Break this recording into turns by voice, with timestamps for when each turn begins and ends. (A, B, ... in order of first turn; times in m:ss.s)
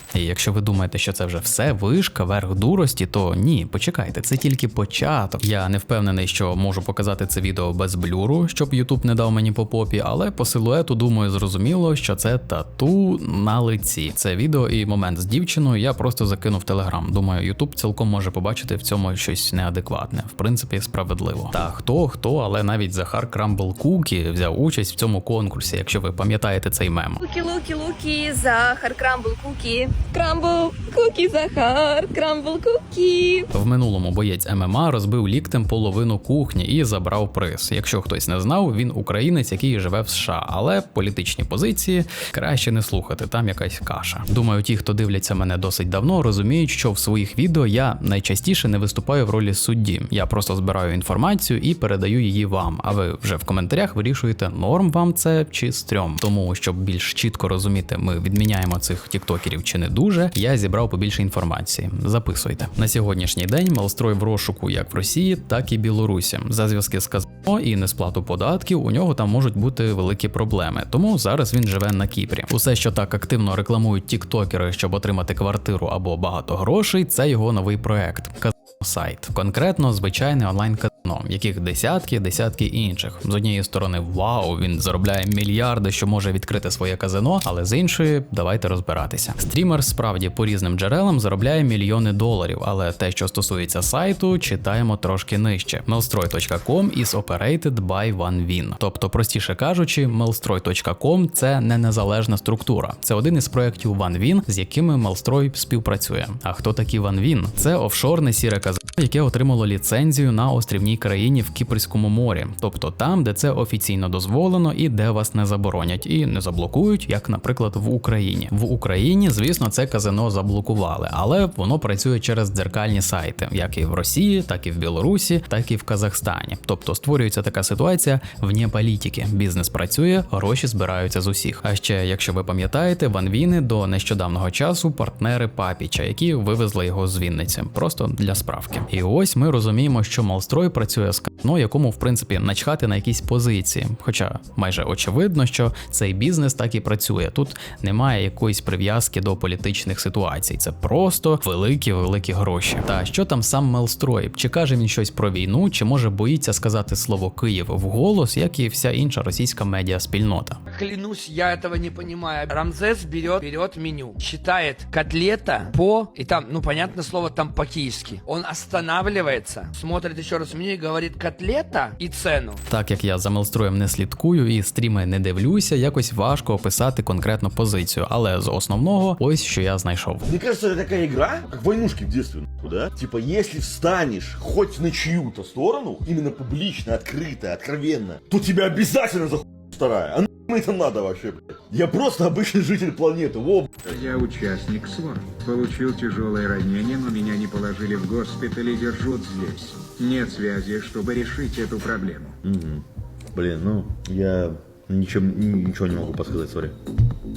0:00.1-0:27.2 A
0:27.2-0:33.5 B
0:33.5-2:40.6 A
2:40.7-2:52.6 C
2:52.7-3:00.3 A
3:00.2-3:13.9 D
3:14.0-3:22.3 E
3:22.4-3:26.7 D